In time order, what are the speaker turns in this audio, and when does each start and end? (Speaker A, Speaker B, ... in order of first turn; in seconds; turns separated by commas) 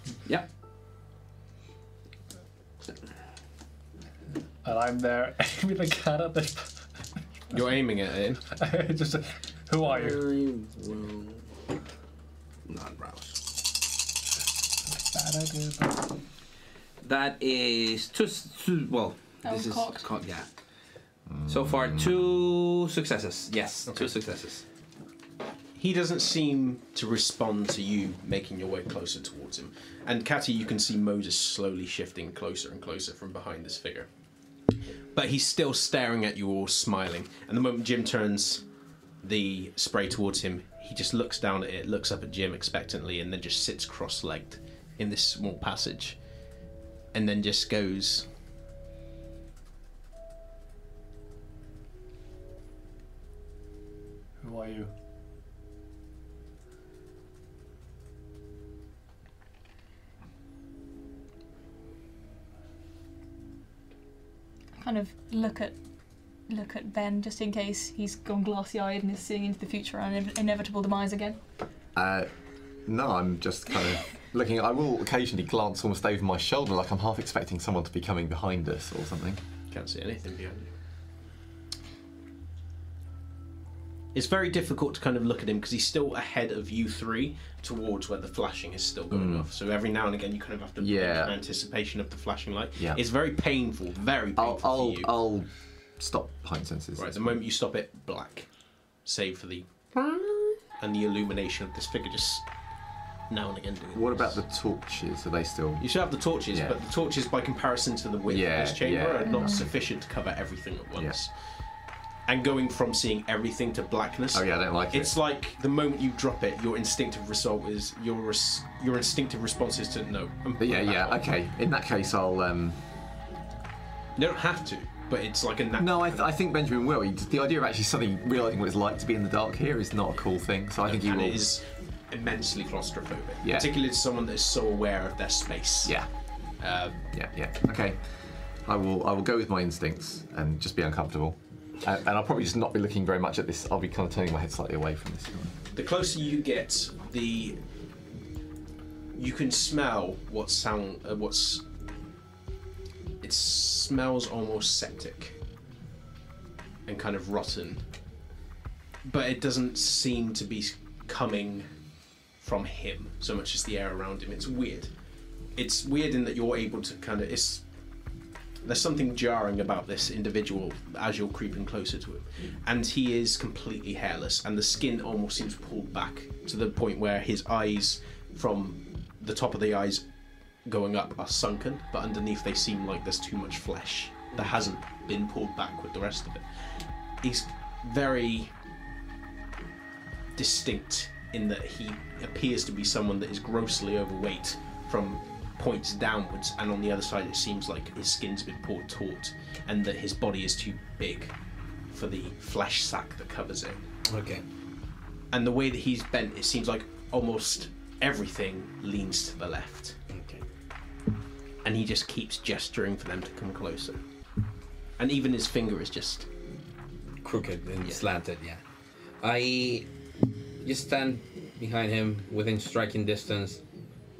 Speaker A: 4.6-6.9, Speaker B: 7.5-8.4, Speaker A: 8.5-10.2, Speaker C: 9.8-11.4, Speaker C: 12.7-13.4, Speaker A: 14.9-16.1, Speaker C: 17.0-20.5, Speaker D: 19.4-20.1, Speaker E: 21.3-22.2, Speaker C: 21.5-24.6, Speaker B: 23.9-24.1, Speaker B: 25.8-34.1, Speaker B: 35.1-38.6, Speaker B: 39.2-46.2, Speaker B: 47.1-48.3, Speaker A: 54.4-54.9, Speaker D: 64.8-65.8, Speaker D: 66.4-71.4, Speaker E: 71.9-72.3, Speaker E: 72.8-79.4, Speaker B: 79.7-80.7, Speaker B: 84.1-95.1, Speaker E: 89.1-89.5, Speaker E: 90.8-91.3, Speaker E: 92.8-93.0, Speaker E: 94.4-97.3, Speaker B: 97.0-98.5, Speaker B: 99.0-99.7, Speaker B: 100.7-104.4, Speaker E: 103.9-105.9, Speaker B: 105.8-111.5, Speaker E: 106.5-106.8, Speaker E: 108.3-109.7, Speaker D: 109.3-109.6, Speaker B: 112.2-121.2, Speaker E: 114.3-115.1, Speaker E: 120.6-122.8, Speaker B: 124.2-126.3, Speaker E: 125.8-131.4, Speaker B: 130.8-137.1, Speaker E: 133.4-133.7, Speaker E: 135.8-136.1, Speaker E: 137.1-138.0, Speaker E: 138.6-145.5, Speaker B: 145.7-147.6, Speaker B: 149.1-151.6, Speaker B: 153.2-155.4, Speaker B: 156.9-157.8, Speaker B: 159.0-161.7, Speaker B: 162.4-164.9, Speaker B: 165.6-167.7, Speaker B: 168.6-180.1, Speaker B: 180.6-186.4, Speaker B: 187.2-188.5, Speaker B: 190.3-201.3, Speaker B: 201.9-203.9, Speaker C: 204.1-204.4, Speaker B: 205.3-210.0, Speaker C: 210.1-210.4, Speaker B: 211.6-214.0, Speaker B: 215.0-216.3, Speaker C: 217.2-218.6, Speaker C: 219.2-219.9, Speaker C: 220.6-223.6